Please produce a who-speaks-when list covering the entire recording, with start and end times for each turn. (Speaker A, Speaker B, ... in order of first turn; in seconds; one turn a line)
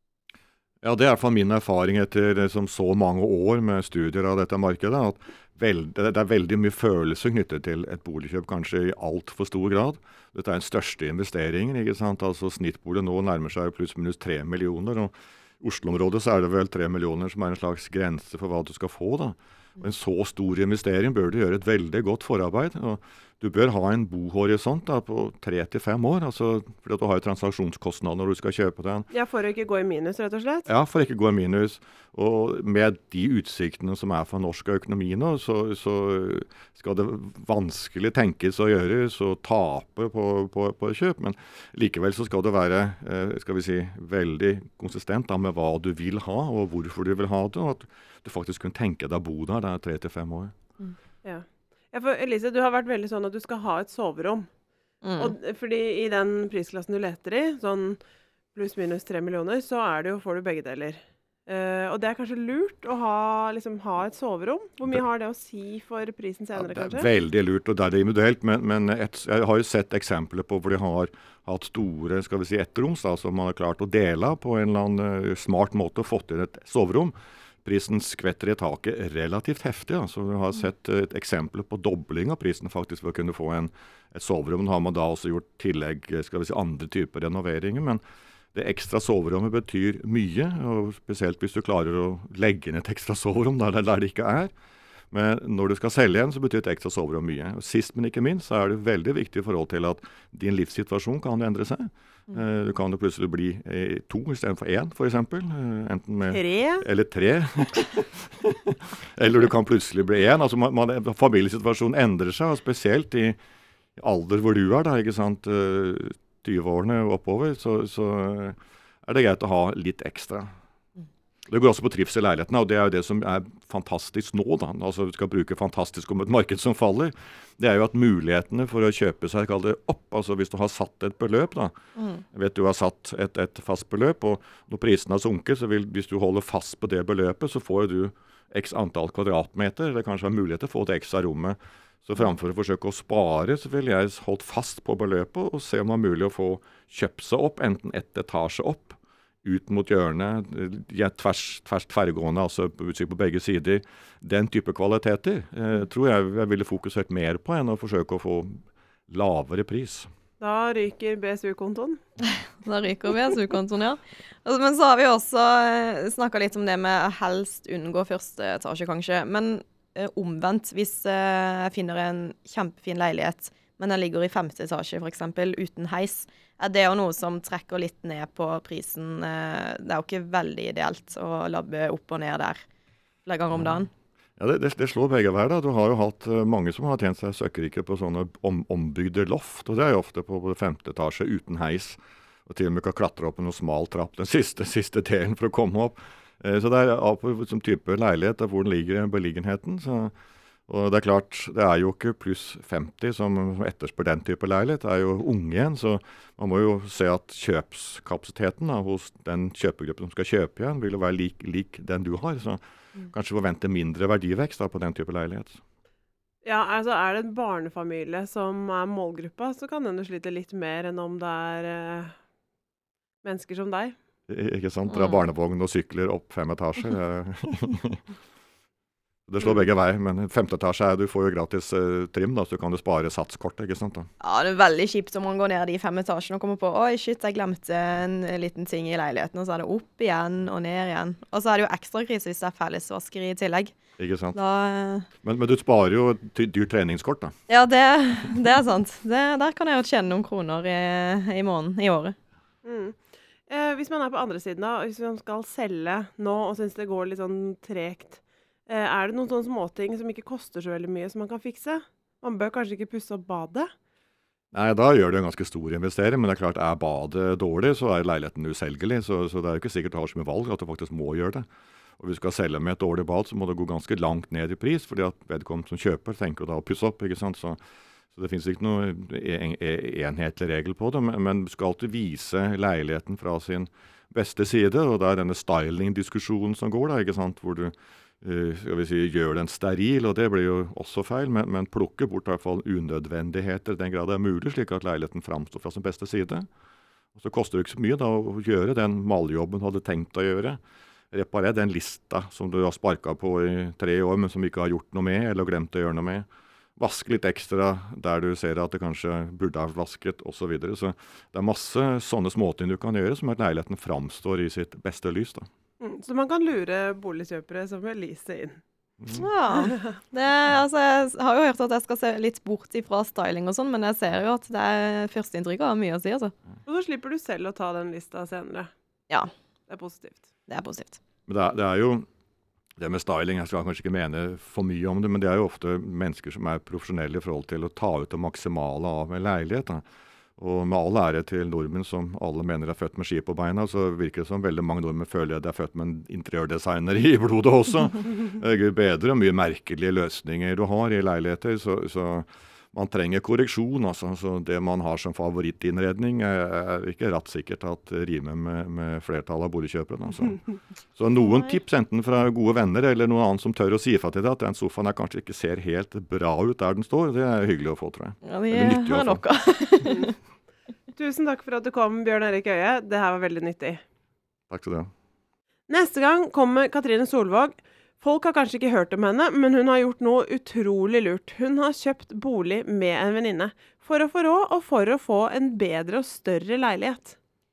Speaker A: 0.8-29.1
Speaker B: 29.1-30.7
Speaker A: 30.7-50.5
Speaker B: 51.2-54.5
Speaker C: 55.0-55.3
Speaker B: 55.2-58.0
Speaker B: 58.5-67.1
Speaker A: 66.5-88.0
Speaker A: 88.5-94.5
Speaker A: 95.1-113.3
Speaker B: 106.3-106.8
Speaker A: 114.0-120.5
Speaker A: 121.5-131.7
Speaker C: 132.0-132.2
Speaker A: 132.3-158.6
Speaker A: 159.1-160.1
Speaker B: 160.4-162.0
Speaker C: 162.6-182.6
Speaker C: 183.2-183.9
Speaker A: 184.4-200.1
Speaker A: 200.7-215.6
Speaker B: 216.4-222.1
Speaker B: 223.2-223.9
Speaker A: 224.3-228.0
Speaker C: 224.9-225.2
Speaker A: 229.3-234.1
Speaker C: 234.2-243.8
Speaker A: 244.0-244.4
Speaker C: 244.3-245.1
Speaker A: 245.2-247.3
Speaker C: 247.5-252.2
Speaker B: 252.6-263.7
Speaker A: 264.5-271.4
Speaker A: 272.0-277.6
Speaker A: 278.1-296.5
Speaker A: 297.1-300.6
Speaker A: 301.1-306.2
Speaker A: 306.8-315.5
Speaker B: 315.8-318.6
Speaker C: 319.1-326.3
Speaker B: 326.6-328.7
Speaker B: 329.7-330.2
Speaker C: 330.5-331.0
Speaker A: 331.3-332.0
Speaker A: 332.8-339.8
Speaker A: 340.4-360.4
Speaker A: 360.9-369.2
Speaker C: 368.2-370.1
Speaker B: 369.8-370.1
Speaker B: 370.9-373.8
Speaker A: 374.5-374.9
Speaker B: 375.7-387.1